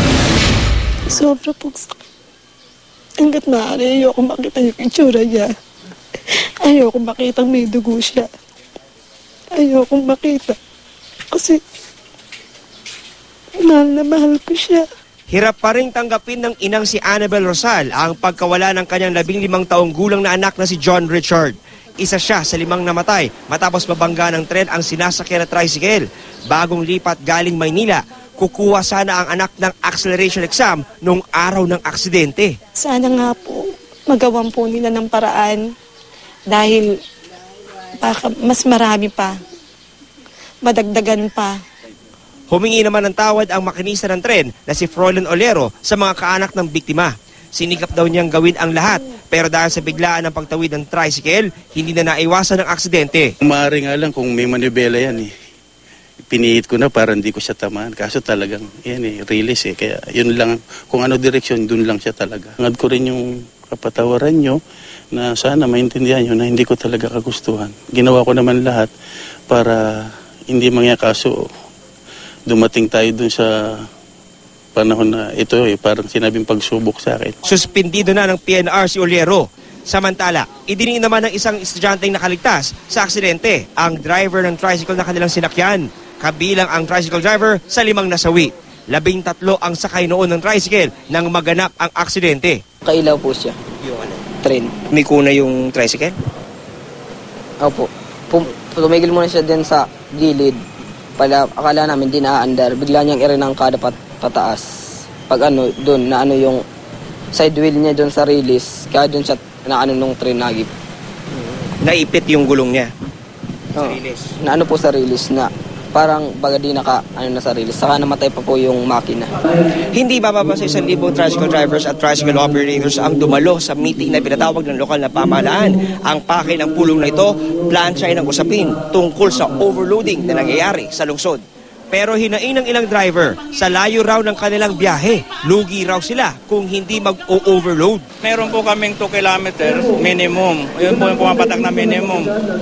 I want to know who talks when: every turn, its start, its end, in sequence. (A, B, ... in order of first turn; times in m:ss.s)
0:01.1-0:02.0 A
0:03.2-0:05.5 A
0:06.6-0:08.3 A
0:09.6-0:10.6 A
0:11.3-0:11.6 A
0:13.6-0:14.8 A
0:15.3-0:32.6 B
0:32.8-0:35.6 A
0:36.5-0:36.9 A
0:38.0-0:39.3 A
0:40.6-0:41.6 A
0:42.5-0:53.3 B
0:53.4-0:55.3 C
0:56.3-1:04.6 C
1:05.1-1:08.9 C
1:09.5-1:11.4 C
1:12.5-1:13.5 C
1:14.8-1:17.4 C
1:17.4-1:32.6 B
1:32.8-1:33.6 D
1:34.4-1:34.7 D
1:34.9-1:36.2 B
1:37.6-1:40.6 D
1:41.2-1:44.7 D
1:45.3-1:46.6 D
1:47.3-1:50.7 D
1:51.5-1:52.9 B
1:53.8-1:59.3 D
1:53.8-1:54.3 B
1:59.9-2:18.1 B
2:18.2-2:22.3 E